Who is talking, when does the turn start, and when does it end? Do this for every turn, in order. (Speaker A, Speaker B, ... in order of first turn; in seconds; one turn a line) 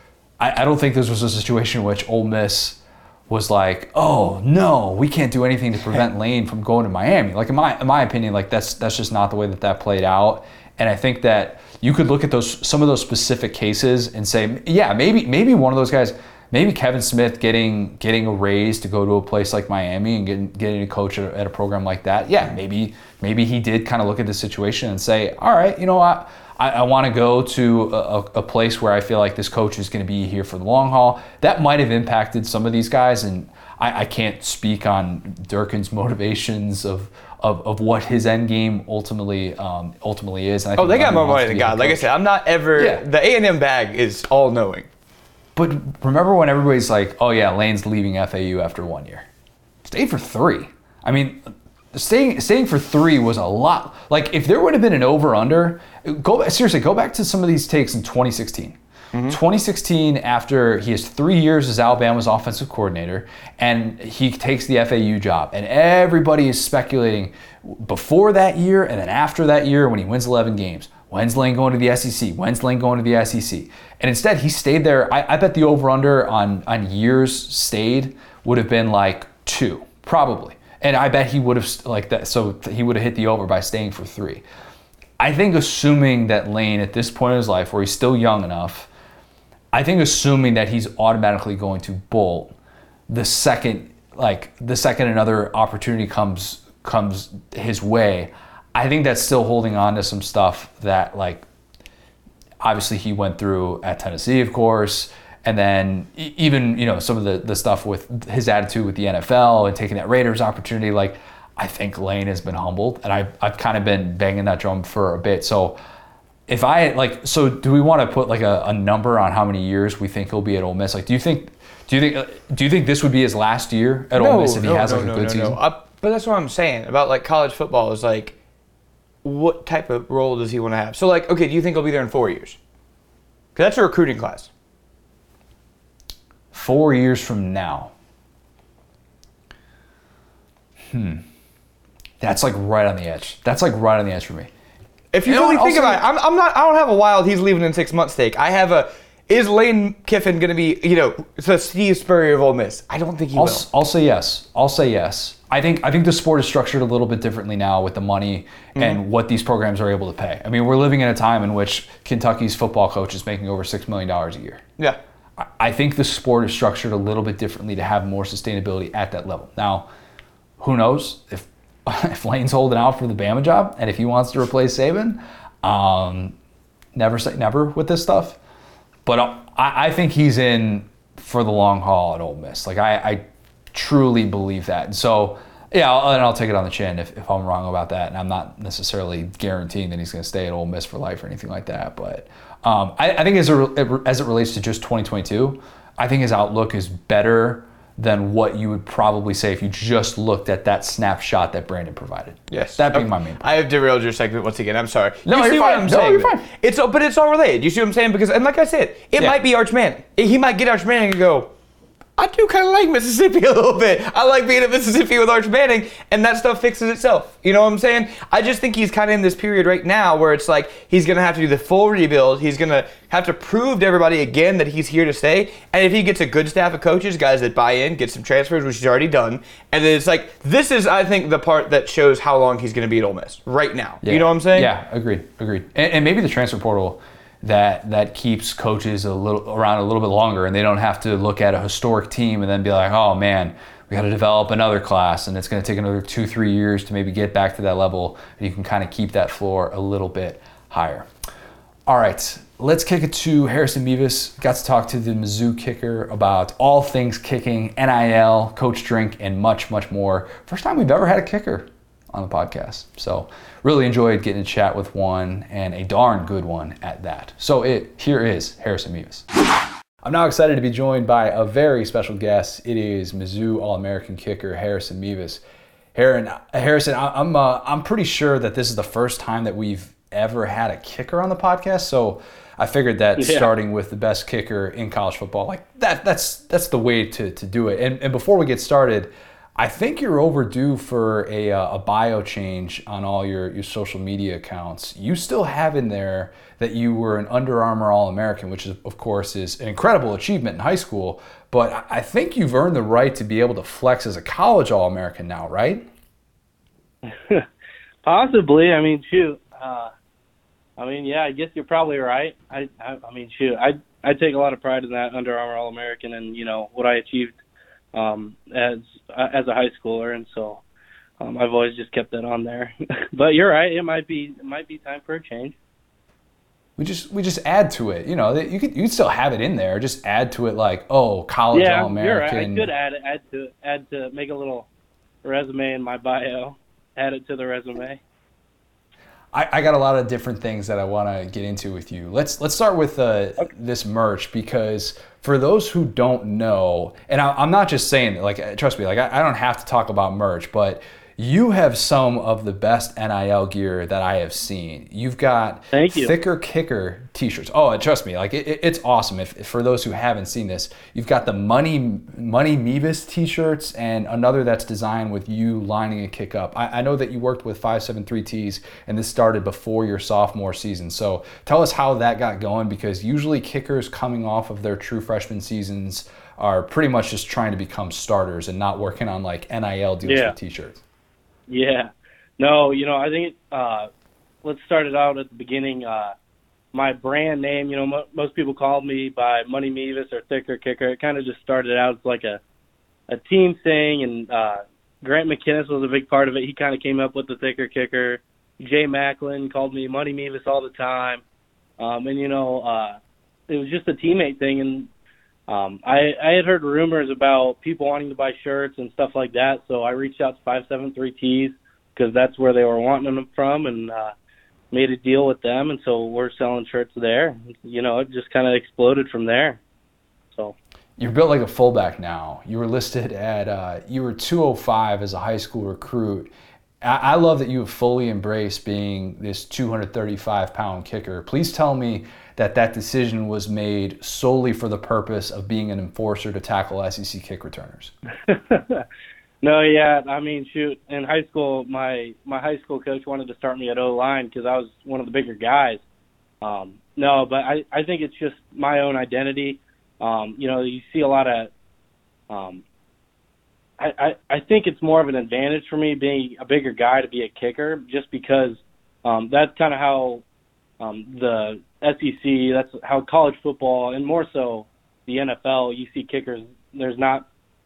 Speaker A: 0.4-42.1
Speaker B: 40.8-44.9
Speaker A: 42.8-43.0
Speaker A: 45.5-49.2
Speaker A: 49.8-58.8
Speaker B: 59.1-59.4
Speaker A: 59.3-84.4
Speaker A: 85.2-88.9
Speaker A: 89.7-92.5
Speaker A: 93.1-101.4
Speaker A: 102.6-115.8
Speaker A: 116.5-125.6
Speaker B: 124.1-128.3
Speaker B: 129.2-132.6
Speaker B: 133.6-134.5
Speaker A: 136.5-137.9
Speaker A: 140.9-141.2
Speaker A: 142.2-144.5
Speaker B: 145.1-153.6
Speaker A: 145.2-146.0
Speaker A: 153.3-164.6
Speaker B: 158.7-159.0
Speaker A: 165.4-169.9
Speaker A: 170.6-176.3
Speaker A: 176.9-178.4
Speaker A: 179.1-203.5
Speaker B: 202.5-211.5
Speaker A: 205.2-206.4
Speaker B: 212.2-234.7
Speaker A: 234.0-251.1
Speaker A: 251.9-269.2
Speaker A: 270.0-275.4
Speaker A: 275.9-305.9
Speaker C: 283.2-283.5
Speaker C: 307.0-307.5
Speaker C: 308.0-309.9
Speaker C: 310.8-317.4
Speaker C: 317.9-320.6
Speaker C: 321.2-325.6
Speaker A: 326.8-332.7
Speaker C: 331.5-334.7
Speaker C: 335.2-338.0
Speaker A: 339.3-380.8
Speaker C: 355.7-356.1
Speaker C: 380.0-380.3
Speaker C: 381.5-383.9
Speaker C: 384.4-386.1
Speaker C: 386.7-392.4
Speaker C: 393.1-401.2
Speaker C: 401.8-403.0
Speaker C: 403.5-404.9
Speaker C: 405.5-414.1
Speaker C: 414.7-419.6
Speaker A: 421.0-426.3
Speaker A: 426.8-437.9
Speaker C: 438.3-438.8
Speaker C: 439.4-445.8
Speaker C: 446.4-451.5
Speaker C: 452.3-452.6
Speaker C: 453.8-460.2
Speaker C: 460.8-467.2